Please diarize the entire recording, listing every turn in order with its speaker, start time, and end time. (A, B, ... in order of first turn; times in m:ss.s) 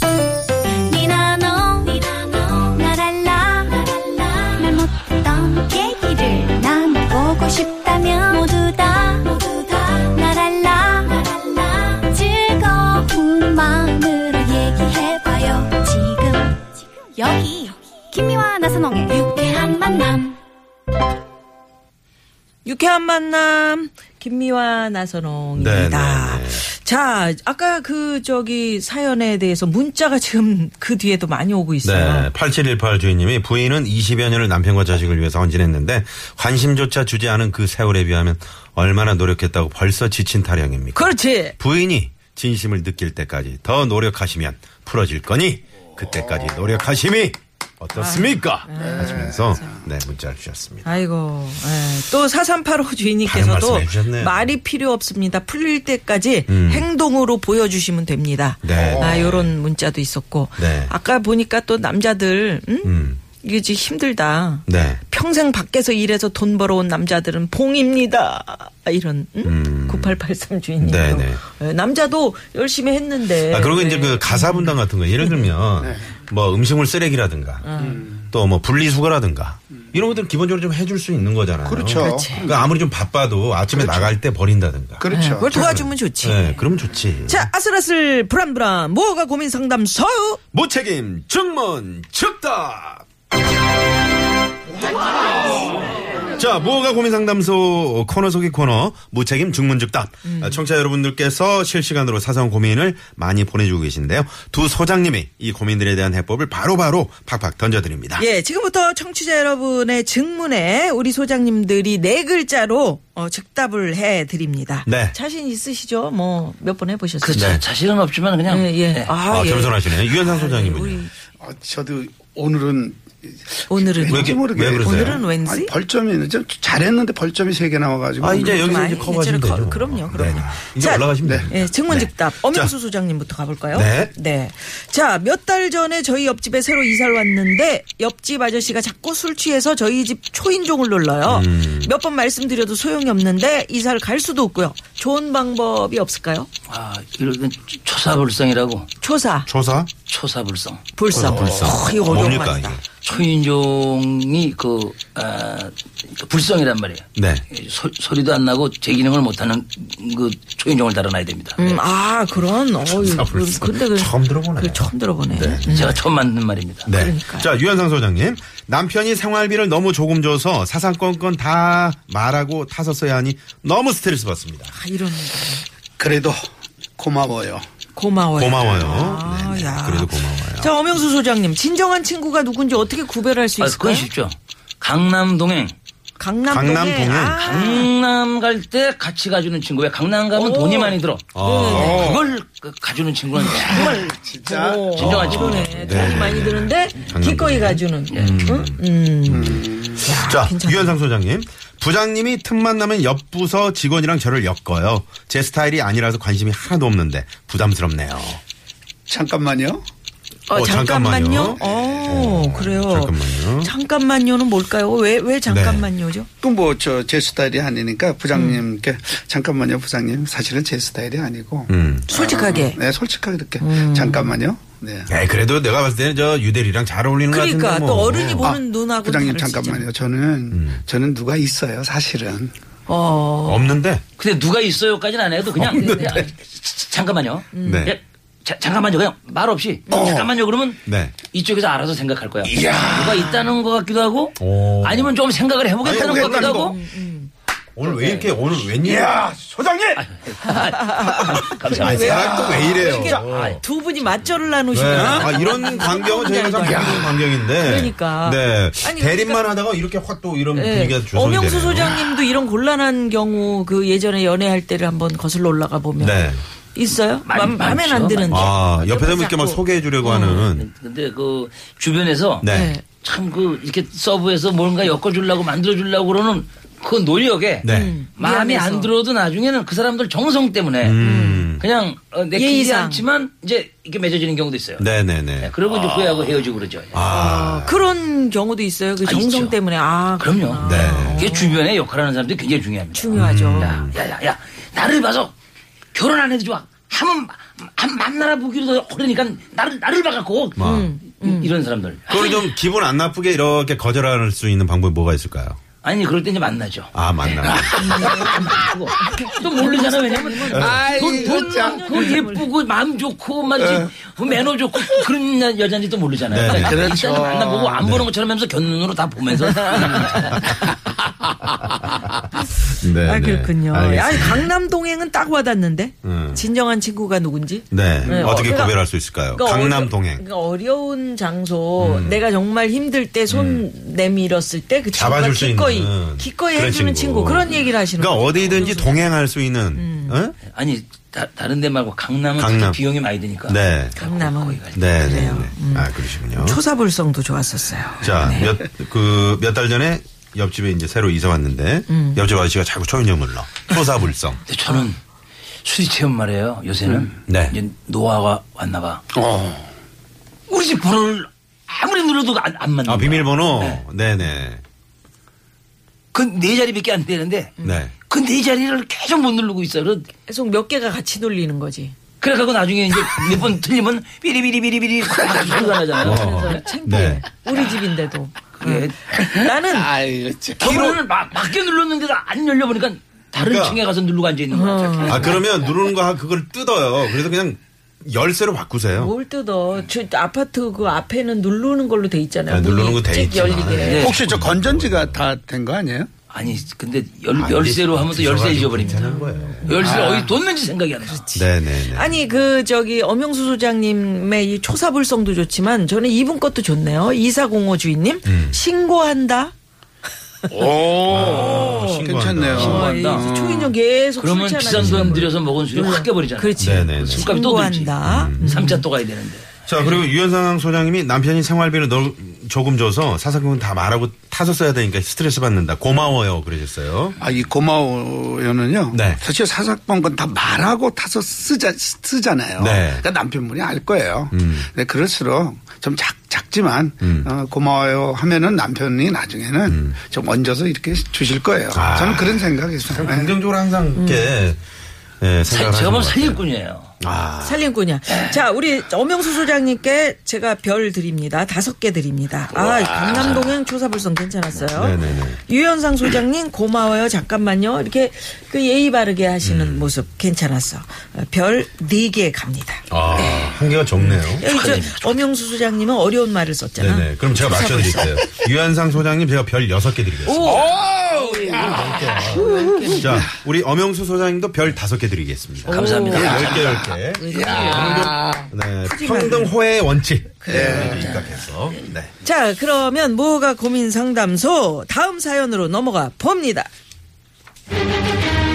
0:00.7-0:20.4 A
0:22.6-0:32.3 B
0:25.5-0:26.6 C
0:31.8-0:50.9 C
0:40.9-0:41.6 B
0:46.3-0:46.6 D
0:47.9-0:49.7 B
0:48.8-0:49.6 D
0:50.8-1:15.5 B
0:53.2-0:54.4 C
0:56.5-0:56.9 C
0:58.6-0:59.5 C
0:58.7-0:59.3 D
1:00.6-1:00.9 C
1:02.8-1:03.2 C
1:04.7-1:05.0 C
1:09.4-1:10.2 C
1:10.8-1:11.4 C
1:13.4-1:27.5 C
1:15.8-1:16.1 D
1:17.6-1:18.0 B
1:17.8-1:18.2 D
1:21.6-1:22.6 D
1:22.0-1:22.5 B
1:23.7-1:24.2 D
1:25.0-1:25.8 D
1:25.1-1:26.5 B
1:27.2-1:30.4 B
1:30.5-1:33.0 C
1:36.3-1:48.2 C
1:40.2-1:40.6 B
1:48.2-1:57.6 B
1:54.8-1:55.2 C
1:57.2-1:59.1 E
1:57.4-1:57.6 C
1:58.5-2:01.1 B
1:59.2-2:01.1 C
2:01.4-2:09.0 D
2:03.7-2:05.7 B
2:04.1-2:05.2 C
2:08.2-2:12.7 C
2:08.3-2:26.5 B
2:11.2-2:11.5 D
2:13.7-2:14.1 C
2:21.2-2:21.9 C
2:26.7-2:28.9 E
2:29.0-2:29.5 B
2:29.4-2:29.9 C
2:30.1-2:31.7 E
2:31.0-2:32.8 B
2:31.1-2:32.8 C
2:33.0-2:41.8 E
2:37.1-2:37.4 C
2:41.6-2:46.0 B
2:42.8-2:46.0 C
2:45.7-2:46.9 E
2:46.8-2:54.7 C
2:46.9-2:47.5 B
2:54.7-2:55.6 B
2:56.0-2:56.4 D
2:57.0-2:57.6 D
2:58.0-3:04.1 B
2:58.3-3:00.7 C
3:03.6-3:05.7 E
3:06.2-3:07.9 B
3:06.5-3:07.4 C
3:07.4-3:14.1 E
3:10.3-3:12.1 B
3:11.3-3:12.1 C
3:11.7-3:12.2 D
3:13.4-3:15.2 D
3:13.7-3:21.0 B
3:14.9-3:28.4 C
3:15.0-3:15.7 E
3:19.3-3:20.1 D
3:29.1-3:29.8 D
3:30.5-3:36.3 B
3:30.5-3:33.7 C
3:31.6-3:32.3 D
3:35.5-3:35.9 C
3:36.4-3:45.1 D
3:38.3-3:38.6 B
3:41.7-3:42.1 C
3:42.1-3:42.8 B
3:43.6-3:44.3 B
3:45.1-3:48.6 C
3:47.3-3:49.9 B
3:48.4-3:52.5 D
3:50.5-3:50.8 C
3:52.9-3:53.8 B
3:53.4-3:54.0 C
3:54.2-4:06.8 E
3:55.5-3:56.3 C
3:55.8-3:56.3 B
3:57.5-3:57.9 B
3:57.6-3:58.0 C
3:59.9-4:00.3 D
4:00.8-4:01.1 C
4:02.4-4:03.4 D
4:04.4-4:05.2 C
4:05.8-4:06.8 D
4:06.2-4:07.3 B
4:07.8-4:09.2 C
4:07.9-4:08.5 E
4:08.8-4:10.0 D
4:10.0-4:13.6 E
4:10.4-4:19.4 B
4:11.7-4:13.6 C
4:12.0-4:13.0 D
4:14.7-4:22.1 C
4:14.9-4:15.4 D
4:16.6-4:17.1 D
4:20.5-4:30.5 B
4:26.0-4:26.4 C
4:27.2-4:28.6 E
4:28.3-4:30.7 C
4:30.5-4:41.0 E
4:32.4-4:32.7 C
4:32.4-4:32.8 B
4:37.6-4:38.0 C
4:37.6-4:38.9 B
4:40.8-4:41.6 C
4:41.0-4:41.5 B
4:41.6-4:44.9 E
4:42.3-4:43.0 B
4:44.8-4:45.6 C
4:45.4-4:47.0 E
4:46.9-4:47.9 C
4:47.0-4:51.6 B
4:49.0-4:49.6 E
4:50.2-4:55.3 E
4:50.6-4:51.3 C
4:52.9-4:53.8 B
4:53.1-4:53.9 C
4:55.9-5:02.5 E
5:00.6-5:01.0 C
5:00.6-5:01.5 B
5:02.1-5:05.6 C
5:05.8-5:20.4 E
5:06.9-5:08.1 C
5:07.6-5:08.6 D
5:07.8-5:08.4 B
5:09.0-5:12.5 B
5:10.5-5:12.1 D
5:10.5-5:10.8 C
5:13.6-5:13.9 D
5:16.3-5:16.9 C
5:16.4-5:17.8 D
5:17.8-5:18.1 C
5:22.6-5:24.5 C
5:23.0-5:39.1 B
5:26.0-5:26.5 C
5:27.7-5:30.2 C
5:28.0-5:28.5 E
5:31.8-5:32.2 C
5:33.3-5:33.7 C
5:34.9-5:40.4 C
5:39.7-5:40.2 B
5:40.5-5:45.2 E
5:42.4-5:42.8 C
5:43.4-5:44.0 C
5:44.0-5:48.6 B
5:44.7-5:46.6 C
5:48.0-5:54.4 C
5:51.9-5:52.2 B
5:54.5-5:55.0 E
5:55.6-5:59.0 E
5:57.3-5:57.6 C
5:59.1-5:59.7 D
6:00.5-6:03.8 E
6:02.8-6:04.6 C
6:06.1-6:07.6 E
6:07.6-6:07.9 B
6:07.6-6:07.9 C
6:08.1-6:10.1 E
6:10.3-6:11.9 B
6:12.2-6:16.7 E
6:15.3-6:15.8 D
6:16.0-6:17.2 C
6:16.0-6:19.9 B
6:18.6-6:19.6 E
6:19.7-6:21.0 D
6:20.6-6:25.5 E
6:23.3-6:23.8 C
6:24.5-6:25.4 B
6:25.0-6:29.1 C
6:29.0-6:34.1 B
6:32.5-6:35.2 C
6:33.8-6:34.2 E
6:34.0-6:36.1 D
6:36.3-6:39.1 E
6:37.3-6:39.9 C
6:38.9-6:40.0 B
6:39.6-6:41.4 E
6:39.8-6:40.3 D
6:41.1-6:49.5 B
6:41.3-6:42.2 C
6:48.2-6:48.6 C
6:50.5-6:53.7 D
6:51.0-6:52.9 C
6:51.1-6:58.8 B
6:52.5-6:53.2 E
6:54.2-6:59.9 E
6:54.7-6:55.3 C
6:56.6-6:57.3 C
6:58.0-6:58.8 C
6:59.6-7:07.2 C
7:07.2-7:23.3 D
7:08.9-7:09.2 C
7:12.6-7:13.0 C
7:14.3-7:14.7 C
7:17.0-7:17.3 C
7:19.6-7:20.0 C
7:21.7-7:24.6 C
7:24.0-7:24.3 B
7:25.2-7:26.4 C
7:25.5-7:26.9 E
7:27.0-7:27.7 C
7:27.4-7:48.2 B
7:28.1-7:28.4 E
7:32.5-7:33.5 E
7:34.7-7:35.4 C
7:39.4-7:39.9 C
7:42.9-7:44.5 C
7:44.2-7:45.2 E
7:46.8-7:50.7 C
7:50.2-7:53.3 B
7:50.4-7:52.9 D
7:51.6-8:02.1 C
7:55.6-7:56.5 B
7:55.7-7:56.8 E
7:56.1-7:58.5 D
7:57.1-7:58.2 B
7:58.8-7:59.6 B
8:00.4-8:01.2 B
8:00.5-8:01.2 D
8:02.2-8:06.7 B